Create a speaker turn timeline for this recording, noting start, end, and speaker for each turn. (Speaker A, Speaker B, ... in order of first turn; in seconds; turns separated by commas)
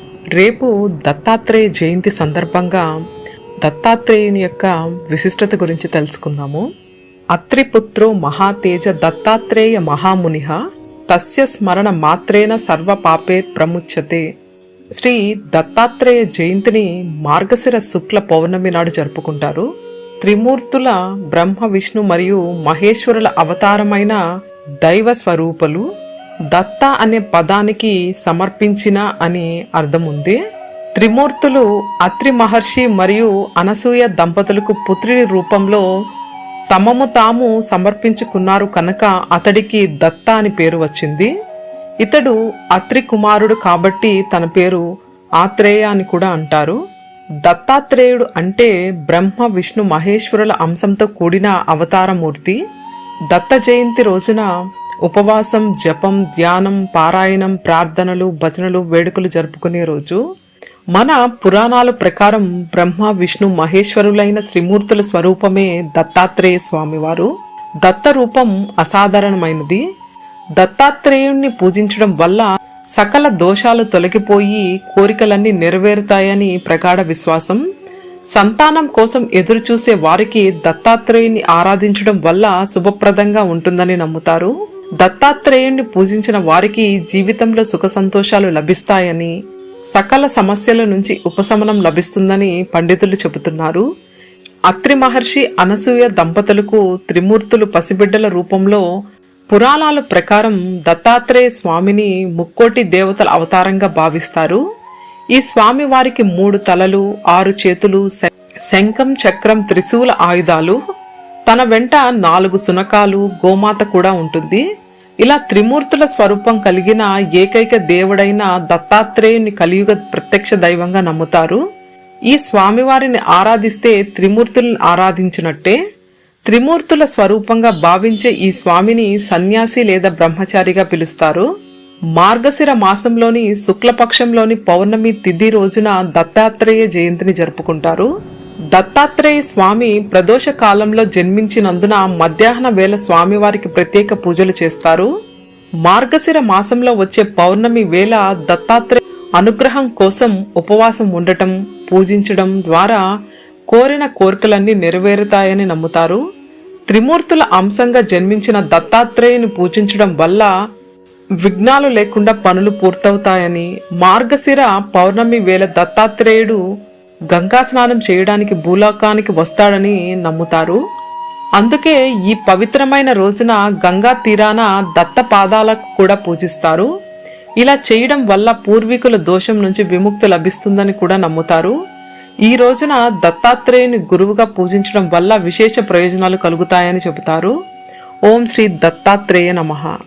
Speaker A: 0.3-2.8, Speaker A: 3.6-6.7, Speaker A: 7.3-10.6, Speaker A: 11.1-14.2, Speaker A: 15.0-19.6, Speaker A: 20.2-24.2, Speaker A: 24.8-25.8, Speaker A: 26.5-30.4, Speaker A: 31.0-35.8, Speaker A: 36.7-41.3, Speaker A: 42.0-44.8, Speaker A: 45.4-46.8, Speaker A: 47.4-52.6, Speaker A: 53.3-54.5, Speaker A: 55.0-60.2, Speaker A: 60.9-67.3, Speaker A: 67.8-69.8, Speaker A: 70.6-77.6, Speaker A: 78.3-89.3, Speaker A: 89.9-93.8, Speaker A: 94.7-98.8, Speaker A: 99.5-104.6, Speaker A: 105.3-110.8, Speaker A: 111.5-114.6, Speaker A: 115.2-121.6, Speaker A: 122.3-125.8, Speaker A: 126.5-131.5, Speaker A: 132.2-138.1, Speaker A: 138.7-145.1, Speaker A: 145.8-153.0, Speaker A: 153.7-156.2, Speaker A: 156.9-160.5, Speaker A: 161.4-166.6, Speaker A: 167.3-170.8, Speaker A: 171.6-176.9, Speaker A: 177.6-181.7, Speaker A: 182.4-187.5, Speaker A: 188.3-189.9